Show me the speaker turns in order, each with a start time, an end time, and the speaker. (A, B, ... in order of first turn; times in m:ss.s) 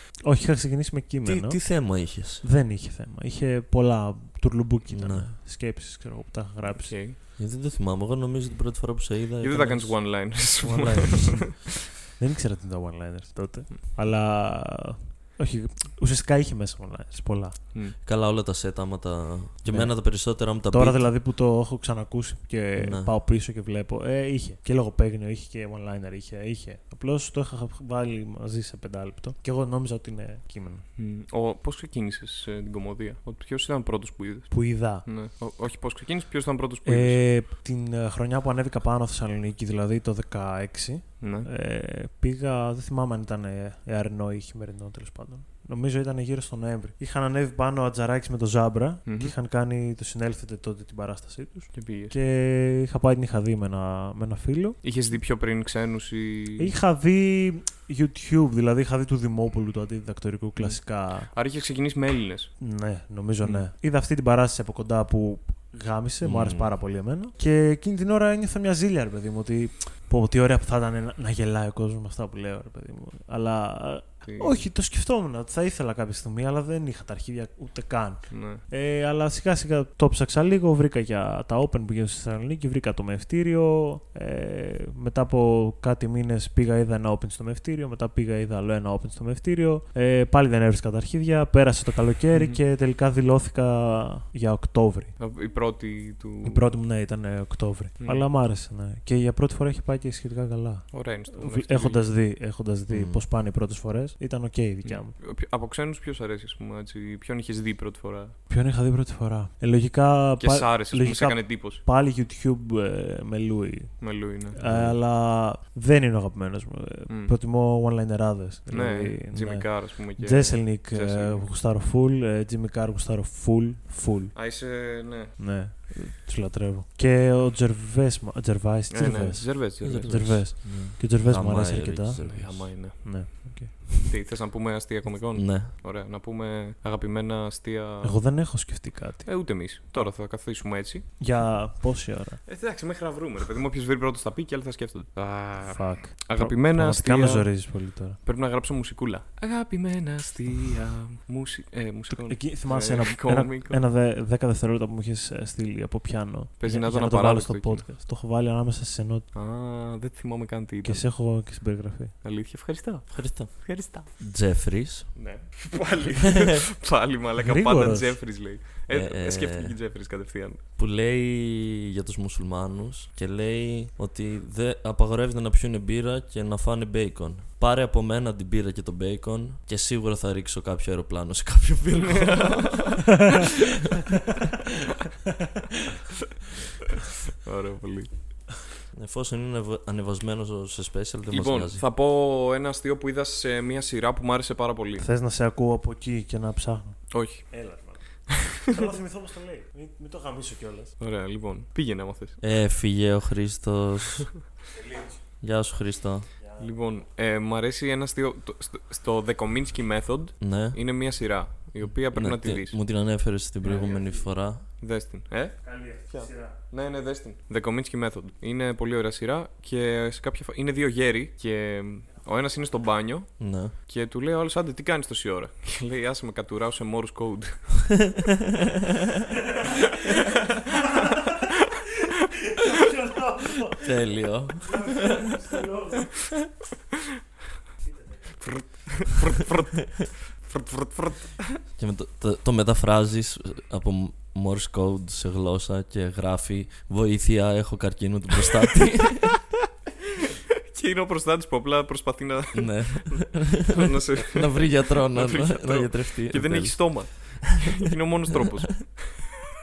0:00.2-0:07.0 A
0:01.2-0:02.4 B
0:04.9-0:05.3 B
0:06.7-0:07.2 C
0:07.3-0:10.0 B
0:09.4-0:11.6 C
0:10.6-0:17.7 A
0:18.0-0:21.1 B
0:19.6-0:30.9 A
0:22.8-0:23.1 B
0:31.0-0:37.3 C
0:34.5-0:35.0 A
0:36.8-0:54.8 A
0:41.2-0:41.5 C
0:49.0-0:49.3 C
0:51.7-0:52.1 C
0:54.8-0:56.7 C
0:56.6-1:01.3 A
1:00.6-1:02.6 C
1:02.6-1:35.2 A
1:03.4-1:03.7 C
1:06.2-1:06.7 B
1:14.2-1:14.6 C
1:18.3-1:18.6 C
1:32.3-1:32.6 C
1:35.2-1:36.7 C
1:36.4-1:45.2 A
1:38.0-1:38.3 C
1:40.9-1:42.0 C
1:42.9-1:43.2 B
1:44.8-1:48.4 C
1:48.5-2:04.3 A
1:50.4-1:51.8 C
1:54.0-1:54.6 C
1:54.6-1:55.0 B
1:57.1-1:57.3 C
1:58.7-2:01.5 C
2:04.3-2:05.4 C
2:05.4-2:14.0 A
2:08.9-2:10.5 C
2:09.8-2:12.7 B
2:12.2-2:18.2 C
2:15.3-2:15.7 B
2:18.0-2:20.1 A
2:19.2-2:21.1 C
2:21.2-2:22.4 A
2:22.4-2:27.7 C
2:25.6-2:28.2 A
2:28.2-2:33.8 C
2:32.1-2:39.3 A
2:36.6-2:37.9 C
2:39.3-2:41.1 C
2:40.8-2:42.1 A
2:42.2-2:44.1 C
2:43.1-2:45.2 B
2:45.1-2:50.6 C
2:47.4-2:48.2 A
2:48.9-2:49.8 B
2:50.8-3:03.4 B
3:02.0-3:03.4 C
3:07.3-3:08.6 C
3:08.9-3:11.8 B
3:11.3-3:15.0 C
3:15.0-3:20.9 A
3:17.1-3:18.5 C
3:21.0-3:22.4 C
3:22.4-3:24.3 B
3:24.7-3:25.2 A
3:25.4-3:26.3 B
3:26.6-3:32.8 C
3:30.4-3:30.8 B
3:32.1-3:34.6 B
3:33.6-3:34.3 A
3:34.8-3:48.0 C
3:35.6-3:36.5 A
3:43.4-3:43.7 B
3:50.1-3:50.6 C
3:52.5-3:53.8 A
3:53.8-3:55.2 B
3:54.6-3:56.1 A
3:58.4-4:01.6 C
4:01.8-4:09.4 B
4:10.7-4:19.3 C
4:12.5-4:17.7 B